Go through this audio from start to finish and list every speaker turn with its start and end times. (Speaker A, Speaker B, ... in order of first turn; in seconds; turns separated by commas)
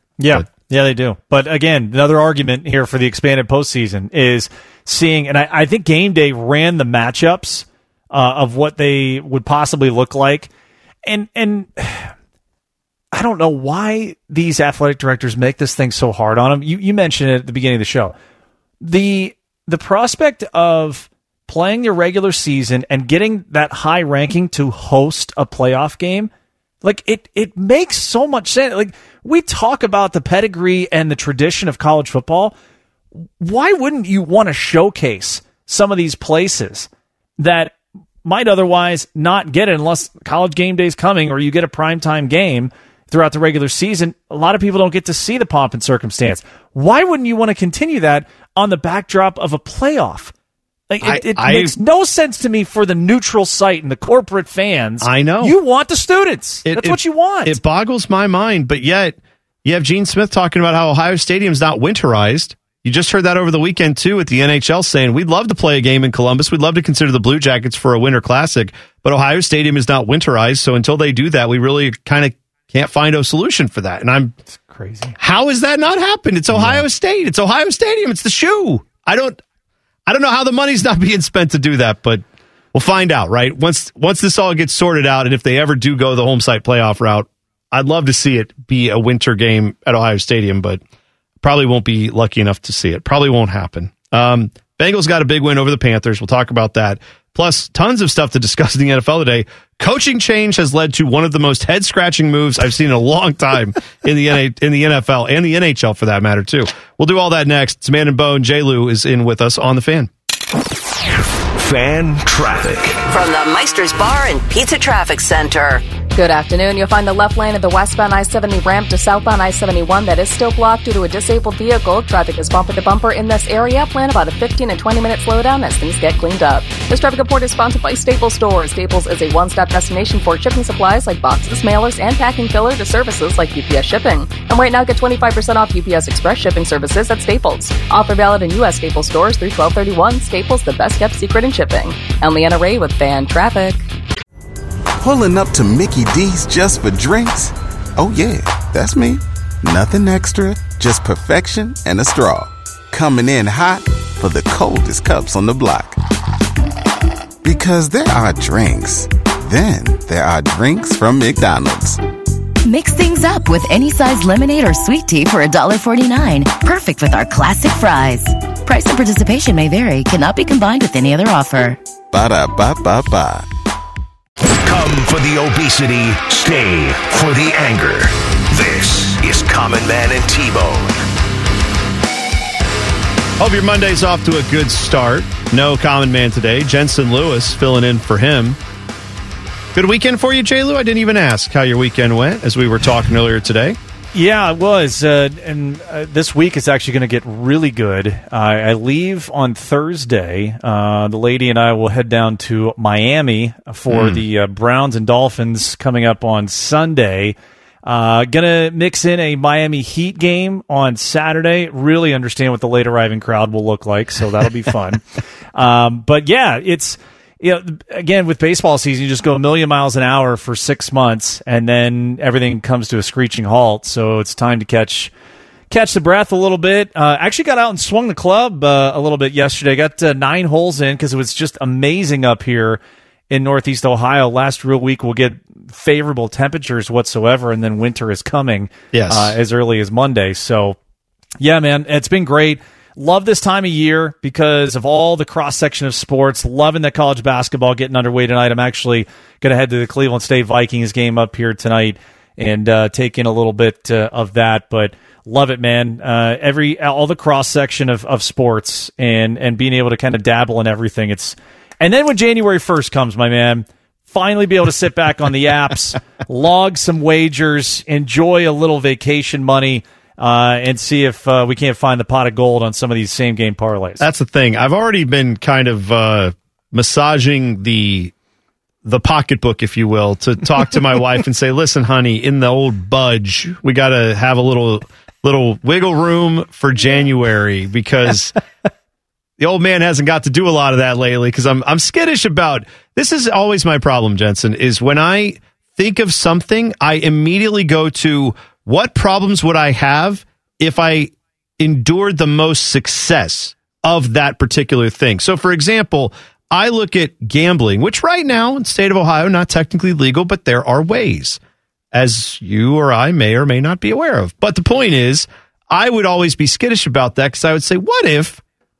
Speaker A: 0.2-10.5, Speaker A: 11.1-12.1, Speaker A: 13.1-18.1, Speaker A: 18.8-26.3, Speaker A: 26.8-32.5, Speaker A: 33.4-50.3, Speaker A: 50.9-57.6, Speaker B: 51.0-51.8, Speaker B: 55.0-55.5, Speaker B: 56.7-74.3, Speaker A: 74.7-75.2, Speaker B: 75.2-79.4, Speaker A: 76.5-76.8, Speaker B: 80.1-82.2, Speaker B: 82.7-90.8, Speaker B: 91.4-110.1, Speaker C: 111.5-113.0, Speaker D: 113.1-115.8, Speaker E: 116.1-143.8, Speaker F: 145.0-156.0, Speaker F: 157.4-162.0, Speaker G: 162.6-171.8, Speaker F: 172.1-173.5, Speaker C: 174.6-180.9, Speaker B: 183.4-188.6, Speaker B: 189.7-193.8, Speaker A: 194.1-225.1, Speaker B: 203.9-204.2, Speaker A: 225.7-240.8, Speaker B: 238.9-239.4, Speaker A: 241.4-274.0, Speaker B: 274.0-278.1, Speaker B: 278.9-288.4, Speaker B: 289.4-311.4, Speaker B: 311.9-318.4